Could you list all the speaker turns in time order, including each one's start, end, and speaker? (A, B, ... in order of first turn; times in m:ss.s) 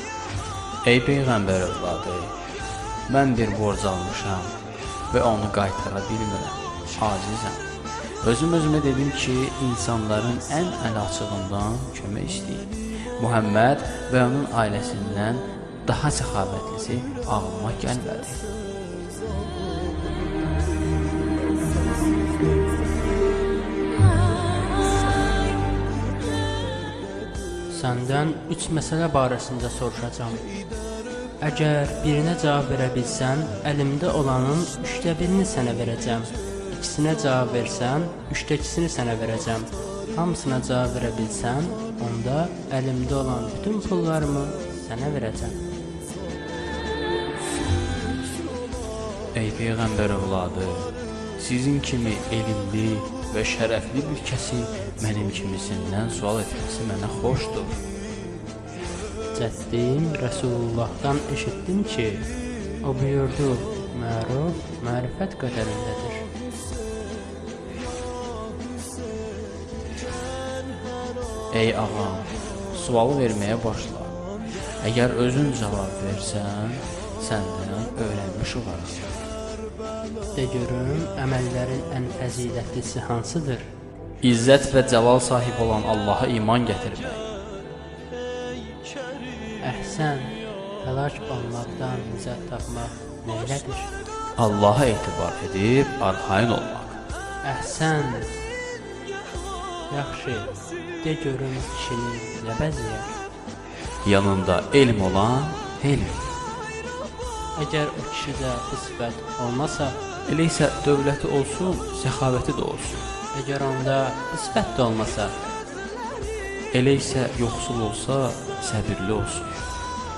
0:00.8-0:02.4 A
0:03.1-0:04.5 A
0:05.1-0:07.7 A
0:08.2-0:18.4 A
0:27.7-0:30.5 B
0:31.4-0:45.6 B
0:49.3-0:57.8 A
0:59.3-1:02.3 B
1:02.8-1:06.2 B
1:11.5-1:14.2 A
1:14.8-1:19.1 A
1:20.3-1:23.7 B
1:24.2-1:27.2 A
1:29.6-1:33.9 B
1:34.4-1:37.0 A
1:37.4-1:38.4 B
1:39.9-1:43.1 B
1:44.0-1:46.2 A
1:47.6-1:50.0 B
1:50.3-1:53.0 A
1:53.3-1:55.3 B
1:56.7-1:59.5 A